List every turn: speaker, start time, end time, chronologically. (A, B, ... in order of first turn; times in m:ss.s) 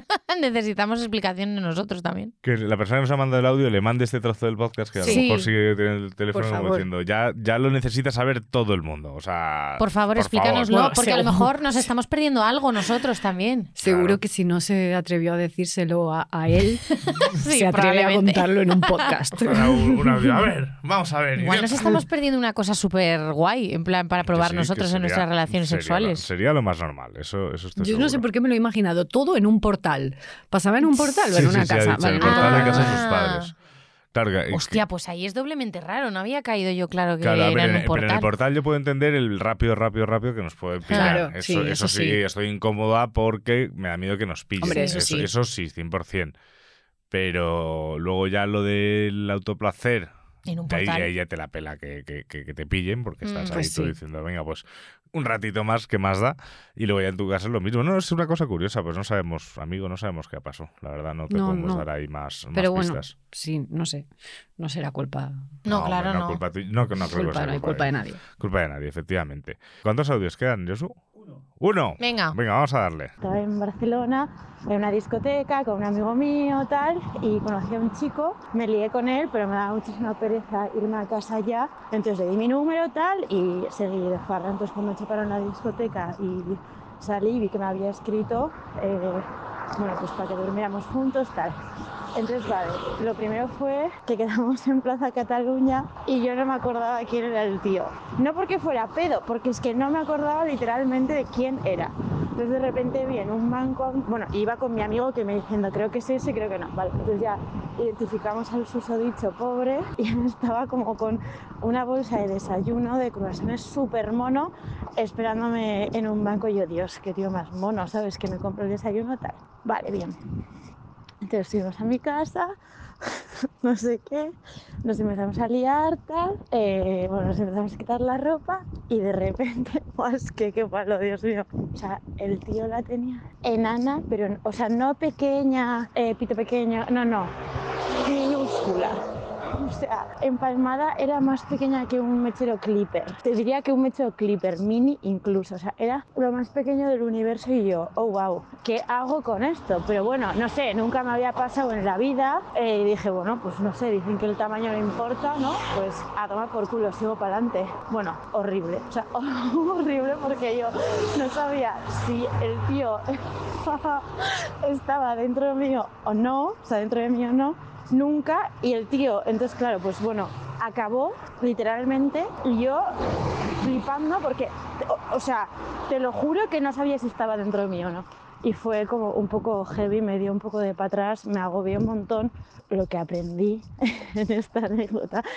0:00.1-0:02.3 A
0:02.4-0:10.7 B
0:05.0-0:05.5 A
0:06.3-0:06.8 C
0:09.8-0:13.7 A
0:10.7-0:11.5 C
0:13.8-0:19.8 C
0:13.8-0:14.2 B
0:17.0-0:19.0 A
0:19.4-0:21.9 B
0:21.4-0:26.2 A
0:24.3-0:28.2 B
0:27.8-0:33.0 C
0:31.3-0:33.5 B
0:32.2-0:33.5 A
0:34.1-0:34.8 B
0:34.5-0:38.3 A
0:37.2-0:46.3 B
0:40.9-0:41.2 A
0:40.9-0:42.2 C
0:44.6-0:45.3 C
0:44.7-0:45.0 A
0:47.1-0:50.1 B
0:50.5-0:51.1 A
0:50.7-1:03.1 B
0:53.2-0:53.6 A
0:53.5-0:53.9 C
1:01.3-1:01.8 C
1:02.5-1:05.5 C
1:05.6-1:06.4 A
1:05.7-1:11.0 B
1:07.1-1:08.2 C
1:11.6-1:13.1 B
1:12.0-1:12.4 A
1:13.2-1:31.6 D
1:32.2-2:00.2 D
2:01.2-2:02.5 D
2:03.0-2:17.3 D
2:18.0-2:19.0 D
2:19.5-2:52.9 D
2:53.6-3:05.2 D